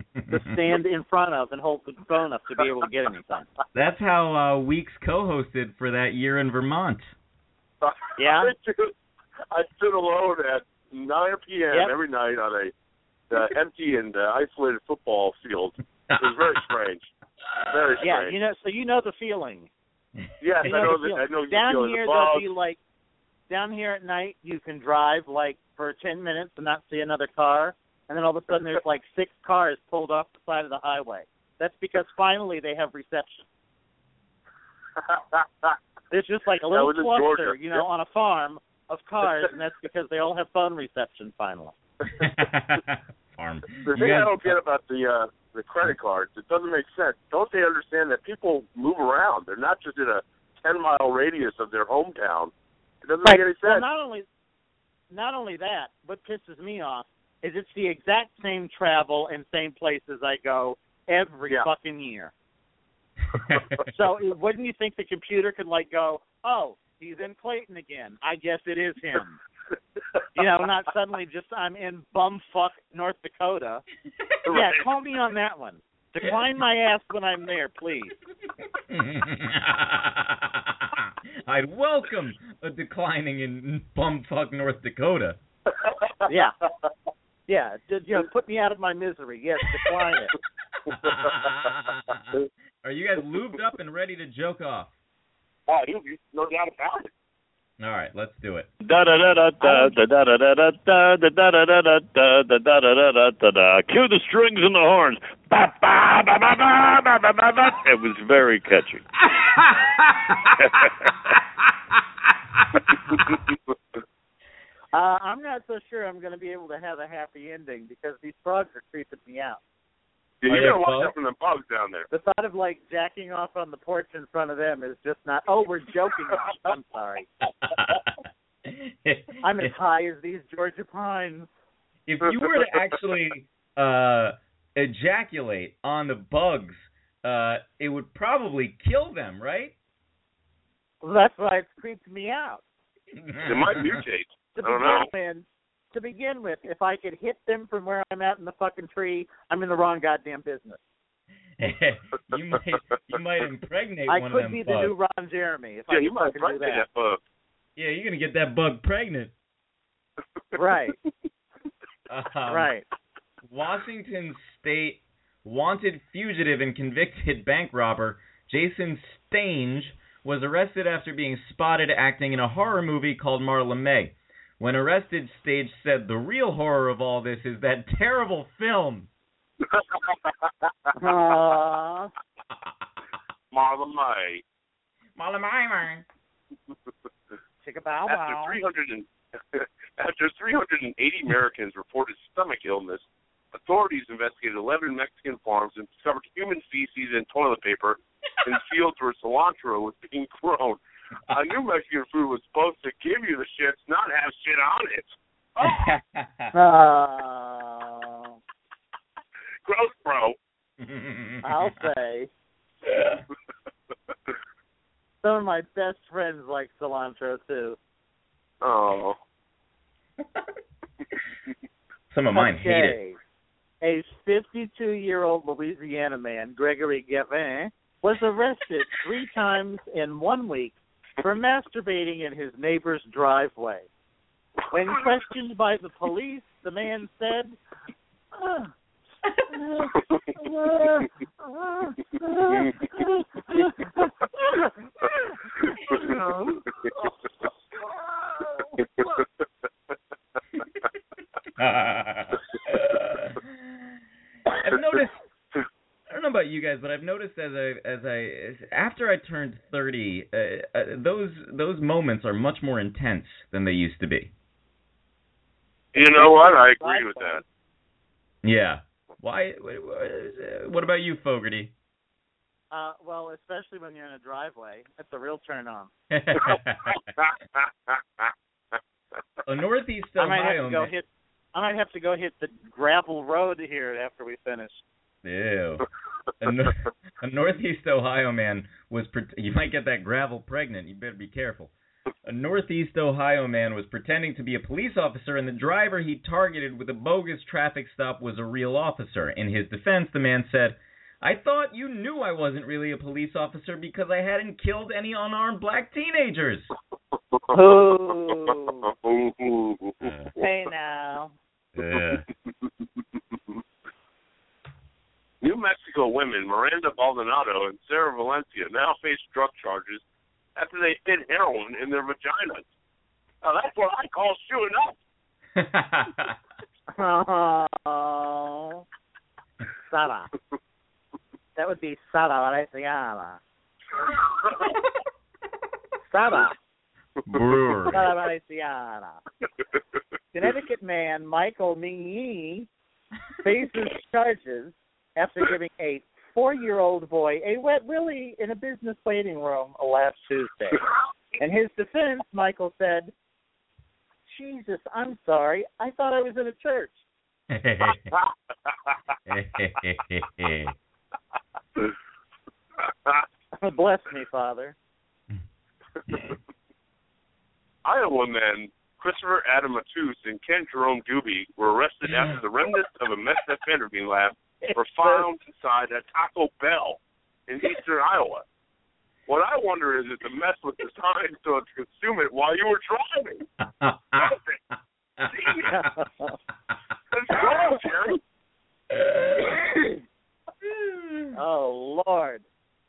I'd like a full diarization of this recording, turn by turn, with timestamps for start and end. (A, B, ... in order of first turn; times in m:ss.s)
0:00.2-0:00.6 A
0:00.3-0:03.5 B
0:03.7-0:07.1 A
0:07.8-0:08.9 C
0:08.2-0:08.5 B
0:09.5-0:12.7 C
0:13.3-0:17.1 C
0:16.1-0:16.6 A
0:17.5-0:18.0 A
0:17.7-0:18.4 C
0:18.0-0:19.7 B
0:20.4-0:22.5 C
0:20.6-0:20.9 A
0:20.6-0:22.8 B
0:23.5-0:33.4 B
0:35.0-0:35.8 C
0:36.1-0:41.7 B
0:36.7-0:37.8 C
0:42.2-0:44.6 A
0:43.9-0:52.5 C
0:53.0-0:53.8 C
0:53.2-0:54.2 B
0:55.1-1:02.3 B
1:03.4-1:03.8 A
1:03.9-1:09.4 B
1:10.3-1:13.8 B
1:14.4-1:14.9 C
1:14.5-1:18.1 B
1:18.9-1:25.4 A
1:25.7-1:26.3 C
1:26.3-1:26.5 B
1:27.5-1:30.3 B
1:30.9-1:34.9 A
1:35.7-1:37.1 C
1:37.8-1:38.7 A
1:38.8-1:49.0 D
1:39.6-1:40.0 B
1:50.6-1:51.1 D
1:54.9-1:59.6 B
2:00.4-2:02.1 C
2:00.4-2:01.1 A
2:02.1-2:07.3 B
2:07.6-2:08.1 A
2:08.6-2:09.7 A
2:09.4-2:11.5 B
2:12.0-2:19.7 A
2:21.0-2:22.6 B
2:23.2-2:24.0 A
2:23.4-2:25.1 C
2:24.5-2:30.8 B
2:31.6-2:34.9 A
2:34.1-2:36.8 B
2:35.9-2:37.2 C
2:37.8-2:39.3 A
2:40.5-2:41.0 B
2:42.1-2:42.7 A
2:42.5-2:42.8 B
2:43.4-2:59.1 A
2:59.7-3:00.2 C
3:00.9-3:02.1 B
3:03.5-3:04.4 C
3:05.2-3:06.0 A
3:07.6-3:08.6 B
3:08.1-3:25.8 C
3:25.6-3:26.5 A
3:26.5-3:28.4 B
3:29.6-3:30.4 C
3:30.8-3:31.8 A
3:31.4-3:32.3 B
3:32.8-3:33.2 A
3:35.2-3:37.8 B
3:38.6-3:39.2 C
3:42.1-3:43.0 A
3:42.3-3:43.2 B
3:43.8-3:53.9 B
3:54.7-3:57.6 B
3:58.3-3:58.7 B
3:59.5-4:03.9 B
4:05.9-4:06.7 B
4:08.3-4:08.7 B
4:11.6-4:13.8 A
4:14.5-4:15.2 A
4:16.1-4:24.3 A
4:25.9-4:27.4 C
4:26.2-4:27.4 B
4:28.4-4:31.7 A
4:32.7-4:35.9 B
4:36.1-4:37.0 A
4:36.4-4:38.3 C
4:39.4-4:40.9 A
4:40.2-4:44.8 B
4:45.2-4:45.8 A
4:46.4-4:51.7 A
4:52.2-5:06.7 A
5:07.3-5:07.6 C
5:07.5-5:08.9 B
5:08.9-5:10.1 C
5:10.0-5:10.3 A
5:10.4-5:11.3 B
5:11.7-5:12.3 A
5:15.4-5:20.0 C
5:20.6-5:22.6 C
5:23.4-5:25.0 C
5:25.5-5:26.3 A
5:26.9-5:28.8 B
5:29.9-5:30.3 B
5:31.6-5:33.4 B
5:34.4-5:34.7 C
5:36.0-5:36.5 B
5:37.3-5:38.0 A
5:37.9-5:39.2 B
5:40.3-5:42.7 B
5:43.4-5:50.8 B
5:51.4-5:53.1 B
5:54.3-5:57.0 B
5:57.5-5:58.1 A
5:59.3-6:00.8 A
6:03.5-6:04.8 B
6:07.8-6:18.4 C
6:14.6-6:15.2 B
6:19.3-6:23.4 C
6:23.6-6:24.3 A
6:24.2-6:24.6 C
6:25.2-6:25.9 A
6:25.3-6:25.7 C
6:25.6-6:26.4 B
6:27.1-6:28.2 C
6:28.9-6:29.5 A
6:30.8-6:31.3 A
6:31.3-6:32.4 B